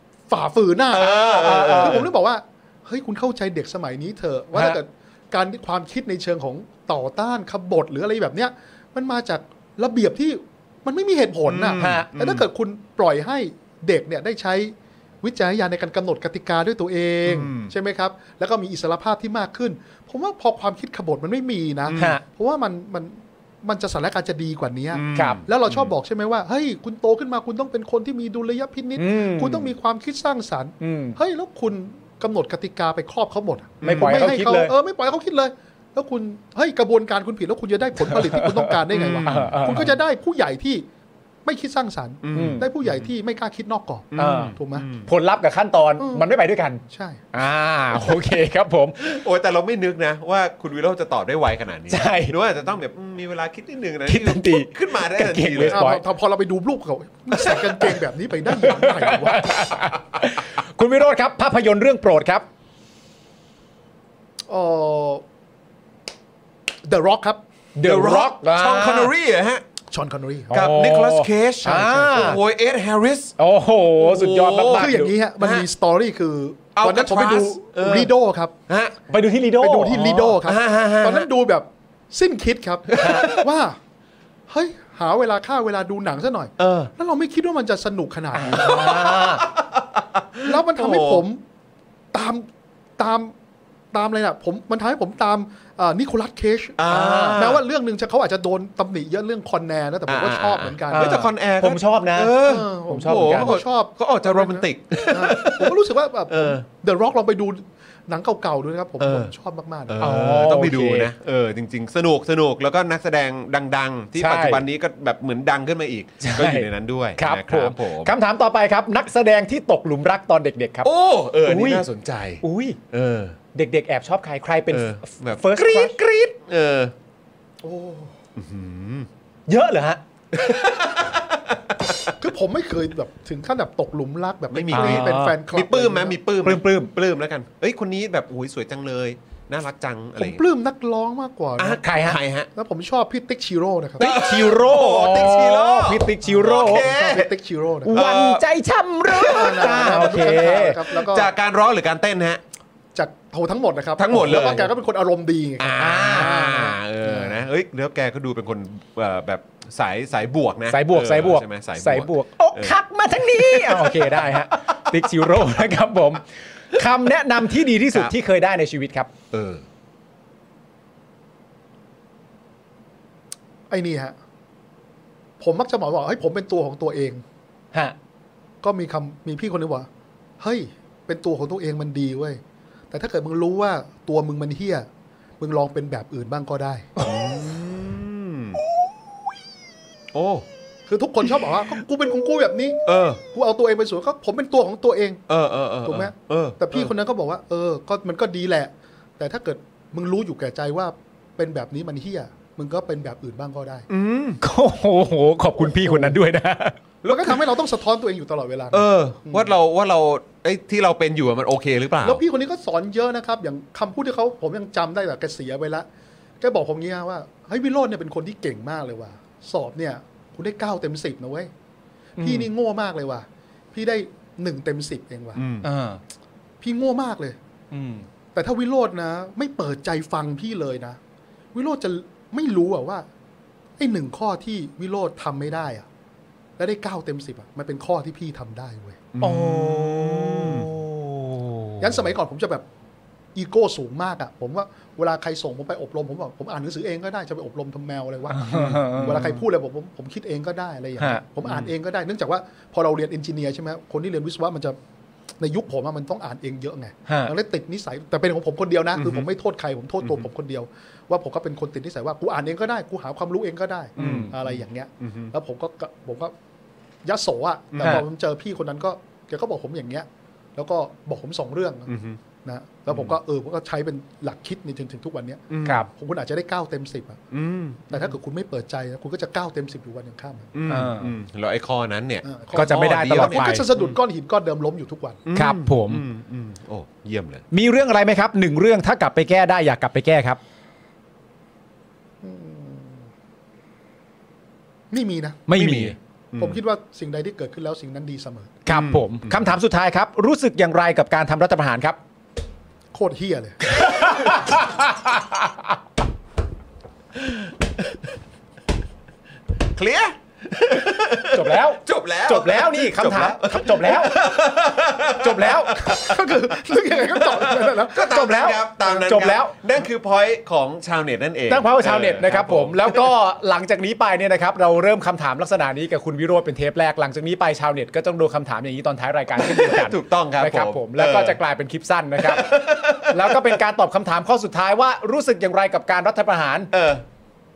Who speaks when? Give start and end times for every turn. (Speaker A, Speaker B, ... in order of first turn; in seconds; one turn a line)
Speaker A: 0.3-40.9
Speaker B: 0.9-2.1
Speaker C: 1.0-2.0
Speaker C: 4.5-4.8
Speaker B: 11.5-12.4
Speaker C: 11.7-12.1
Speaker B: 17.2-17.7
Speaker B: 21.9-22.1
Speaker C: 21.9-22.2
Speaker B: 24.9-25.9
Speaker C: 25.1-25.4
Speaker C: 28.9-29.7
Speaker C: 30.8-31.2
Speaker B: 33.8-34.3
Speaker C: 33.8-34.7
Speaker C: 38.0-39.9
Speaker B: 38.9-39.5
Speaker A: 41.4-44.9
Speaker B: 42.2-43.1
Speaker C: 42.3-42.7
Speaker B: 44.1-45.1
Speaker C: 44.1-46.8
Speaker A: 46.0-46.2
Speaker A: 46.9-47.2
Speaker C: 47.3-49.0
Speaker B: 49.0-55.9
Speaker C: 51.9-52.3
Speaker C: 54.1-56.0
Speaker A: 55.7-59.6
Speaker B: 57.4-57.9
Speaker C: 58.5-62.5
Speaker A: 64.5-65.2
Speaker A: 66.8-67.4
Speaker C: 67.7-69.1
Speaker B: 67.8-69.6
Speaker A: 69.9-70.7
Speaker C: 70.5-72.4
Speaker B: 70.5-73.3
Speaker A: 71.7-72.4
Speaker C: 73.4-75.1
Speaker B: 74.0-75.7
Speaker A: 74.7-78.5
Speaker B: 76.8-78.1
Speaker B: 78.7-79.0
Speaker C: 79.1-80.4
Speaker A: 79.6-83.8
Speaker B: 80.4-81.2
Speaker B: 82.9-83.5
Speaker A: 84.5-89.0
Speaker B: 86.6-86.9
Speaker C: 88.3-89.5
Speaker B: 88.6-91.2
Speaker A: 90.4-91.4
Speaker A: 92.1-92.5
Speaker A: 93.0-93.3
Speaker A: 93.9-96.8
Speaker B: 96.8-97.6
Speaker C: 96.9-97.5
Speaker A: 97.3-101.2
Speaker B: 100.1-105.8
Speaker C: 100.9-102.3
Speaker A: 102.4-110.1
Speaker C: 102.9-103.6
Speaker B: 106.3-106.6
Speaker B: 109.0-109.3
Speaker B: 109.9-118.2
Speaker C: 110.0-111.1
Speaker C: 114.2-114.6
Speaker C: 116.2-120.9
Speaker B: 120.8-123.4
Speaker C: 121.4-121.8
Speaker C: 122.4-122.8
Speaker C: 123.5-126.3
Speaker B: 124.7-126.9
Speaker A: 127.6-128.2
Speaker B: 128.3-129.1
Speaker C: 129.5-130.0
Speaker B: 130.3-132.1
Speaker A: 132.2-136.2
Speaker B: 134.5-140.4
Speaker C: 134.7-135.3
Speaker C: 136.4-136.9
Speaker A: 140.2-141.8
Speaker B: 141.6-142.5
Speaker C: 141.8-142.2
Speaker A: 142.5-144.1
Speaker C: 144.0-146.9
Speaker B: 144.0-147.3
Speaker A: 146.2-148.0
Speaker C: 147.8-150.8
Speaker B: 147.9-148.4
Speaker B: 149.1-150.0
Speaker A: 149.3-151.3
Speaker B: 150.9-152.4
Speaker A: 152.9-157.4
Speaker B: 154.0-154.7
Speaker B: 155.6-164.4
Speaker C: 155.8-156.7
Speaker C: 160.7-169.1
Speaker B: 169.3-169.6
Speaker A: 173.7-174.2
Speaker A: 175.4-177.2
Speaker A: 178.6-179.9
Speaker A: 180.4-182.4
Speaker A: 182.9-184.9
Speaker A: 185.4-186.9
Speaker B: 187.0-188.6
Speaker B: 190.1-190.4
Speaker A: 190.9-195.2
Speaker B: 192.8-193.2
Speaker B: 195.3-196.9
Speaker A: 195.8-203.9
Speaker B: 203.9-204.4
Speaker C: 204.4-206.8
Speaker A: 205.6-206.2
Speaker A: 207.0-209.5
Speaker B: 207.1-207.3
Speaker B: 208.7-212.2
Speaker A: 212.0-215.9
Speaker A: 216.4-221.5
Speaker C: 222.2-222.5
Speaker A: 222.2-225.4
Speaker B: 225.3-225.7
Speaker C: 225.6-226.0
Speaker A: 226.6-227.4
Speaker C: 227.7-228.1
Speaker A: 228.3-231.0
Speaker A: 231.5-233.1
Speaker A: 233.8-235.9
Speaker A: 236.6-239.1
Speaker B: 239.1-240.7
Speaker C: 239.2-241.8
Speaker A: 241.8-242.6
Speaker A: 243.3-254.8
Speaker C: 248.3-249.4
Speaker B: 248.5-249.3
Speaker B: 251.4-251.7
Speaker A: 255.4-266.3
Speaker C: 257.1-257.3
Speaker B: 258.9-259.2
Speaker B: 260.0-260.3
Speaker C: 264.0-264.3
Speaker B: 264.0-265.3
Speaker A: 267.0-271.9
Speaker C: 267.8-268.0
Speaker B: 271.9-272.2
Speaker A: 272.4-277.2
Speaker B: 272.9-273.2
Speaker B: 275.5-275.9
Speaker B: 277.3-278.1
Speaker A: 277.9-280.5
Speaker B: 280.5-284.0
Speaker C: 280.7-281.1
Speaker A: 282.2-285.2
Speaker C: 282.5-283.7
Speaker B: 285.2-287.4
Speaker C: 285.3-286.0
Speaker C: 287.5-290.4
Speaker A: 292.2-293.1
Speaker A: 294.9-295.5
Speaker C: 295.5-295.9
Speaker B: 295.5-296.6
Speaker A: 296.4-298.6
Speaker C: 298.6-302.0
Speaker B: 298.7-299.5
Speaker A: 302.9-303.7
Speaker C: 303.7-305.6
Speaker B: 303.8-304.2
Speaker B: 309.6-323.2
Speaker C: 311.3-314.2
Speaker C: 315.2-315.8
Speaker A: 315.7-318.1
Speaker C: 318.0-319.5
Speaker C: 321.5-336.7
Speaker B: 329.4-331.4
Speaker B: 332.2-333.6
Speaker B: 336.7-337.0